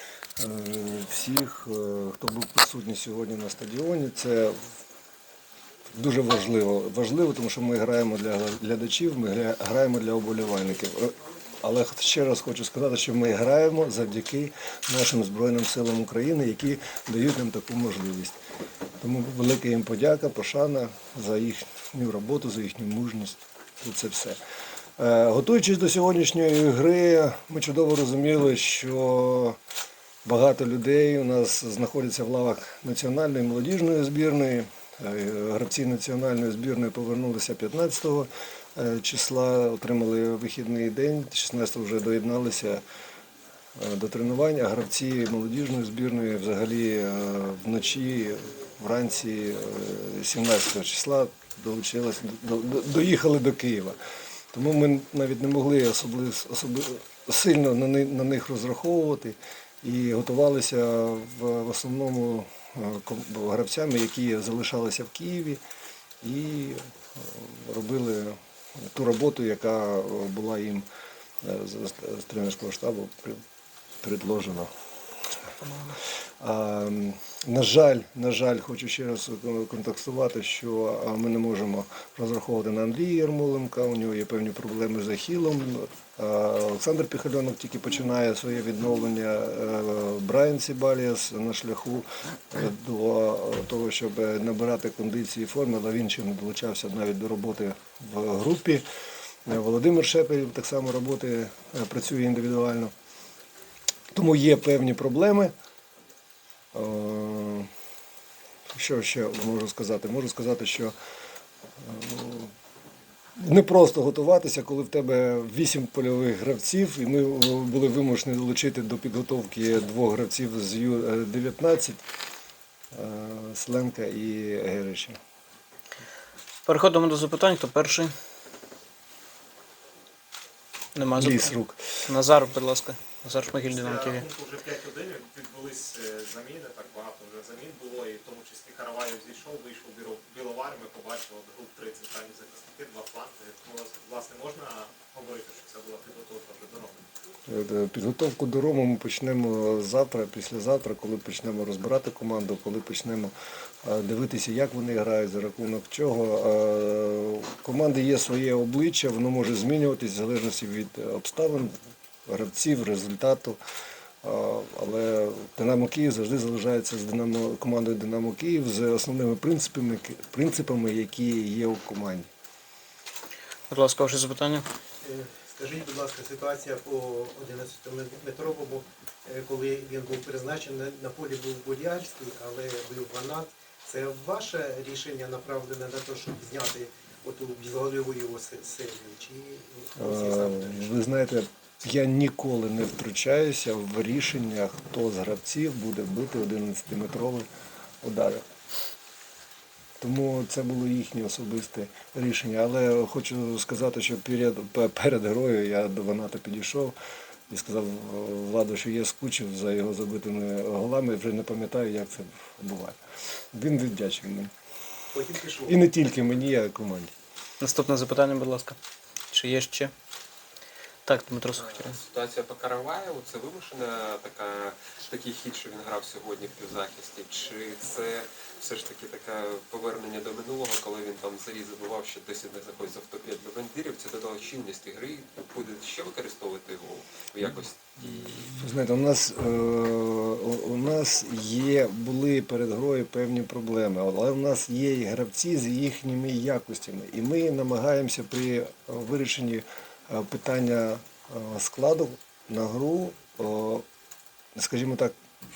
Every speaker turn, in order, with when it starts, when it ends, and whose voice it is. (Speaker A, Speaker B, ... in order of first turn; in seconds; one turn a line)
Speaker A: 0.4-4.6
Speaker A: 5.9-18.4
Speaker A: 19.0-24.4
Speaker A: 25.0-29.6
Speaker A: 30.2-42.8
Speaker A: 43.8-54.0
Speaker A: 54.5-65.6
Speaker A: 66.2-68.4
Speaker A: 68.9-70.8
Speaker A: 71.4-73.4
Speaker A: 74.0-74.7
Speaker A: 76.4-98.8
Speaker A: 99.5-102.9
Speaker A: 104.1-105.5
Speaker A: 106.7-107.7
Speaker A: 108.7-110.9
Speaker A: 111.8-112.5
Speaker A: 113.4-122.0
Speaker A: 122.9-125.2
Speaker B: 126.7-128.1
Speaker B: 130.9-134.2
Speaker A: 131.2-131.9
Speaker C: 133.6-147.0
Speaker A: 147.5-163.6
Speaker A: 164.2-172.3
Speaker B: 173.7-174.7
Speaker D: 175.0-190.9
Speaker A: 189.9-197.4
Speaker A: 198.0-198.4
Speaker A: 200.0-206.9
Speaker A: 207.5-213.0
Speaker A: 213.5-214.5
Speaker D: 215.1-215.7
Speaker A: 215.6-217.1
Speaker B: 217.6-218.8
Speaker B: 219.3-219.9
Speaker B: 221.1-222.0
Speaker E: 221.6-238.1
Speaker A: 238.0-253.8
Speaker A: 254.6-255.1